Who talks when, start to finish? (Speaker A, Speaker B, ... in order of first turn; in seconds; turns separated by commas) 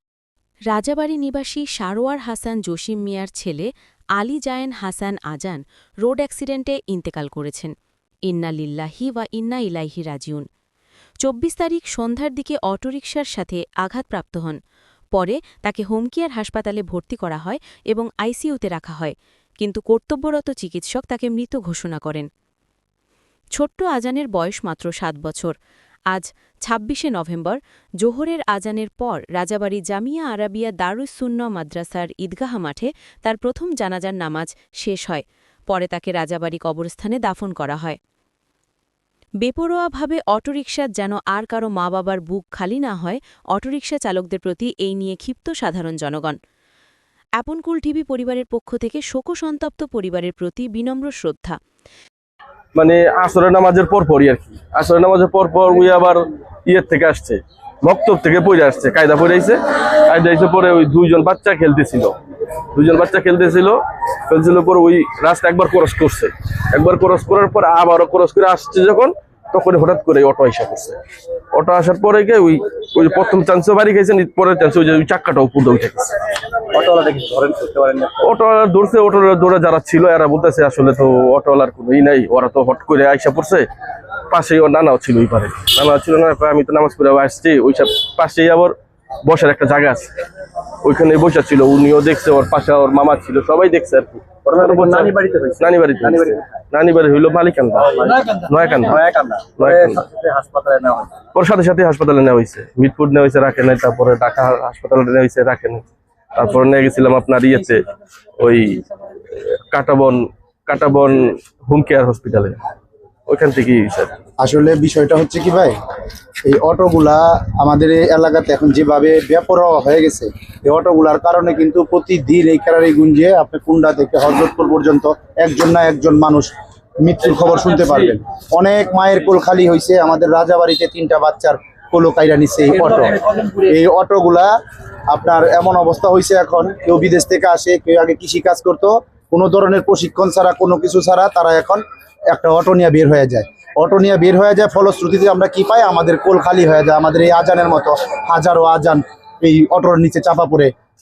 Speaker A: 0.7-7.7, Speaker A: 8.3-10.4, Speaker A: 11.2-14.6, Speaker A: 15.1-22.2, Speaker A: 23.6-25.5, Speaker A: 26.1-38.0, Speaker A: 39.4-46.4, Speaker A: 47.4-51.6, Speaker B: 52.7-62.1, Speaker B: 62.7-71.0, Speaker B: 71.5-76.2, Speaker C: 76.7-78.1, Speaker B: 78.2-83.7, Speaker B: 84.3-90.1, Speaker B: 90.8-99.0, Speaker C: 94.5-96.6, Speaker C: 97.9-101.1, Speaker B: 99.6-100.0, Speaker B: 101.3-107.8, Speaker B: 108.4-112.6, Speaker B: 113.3-114.1, Speaker D: 114.4-115.7, Speaker D: 116.4-134.5, Speaker D: 135.1-150.7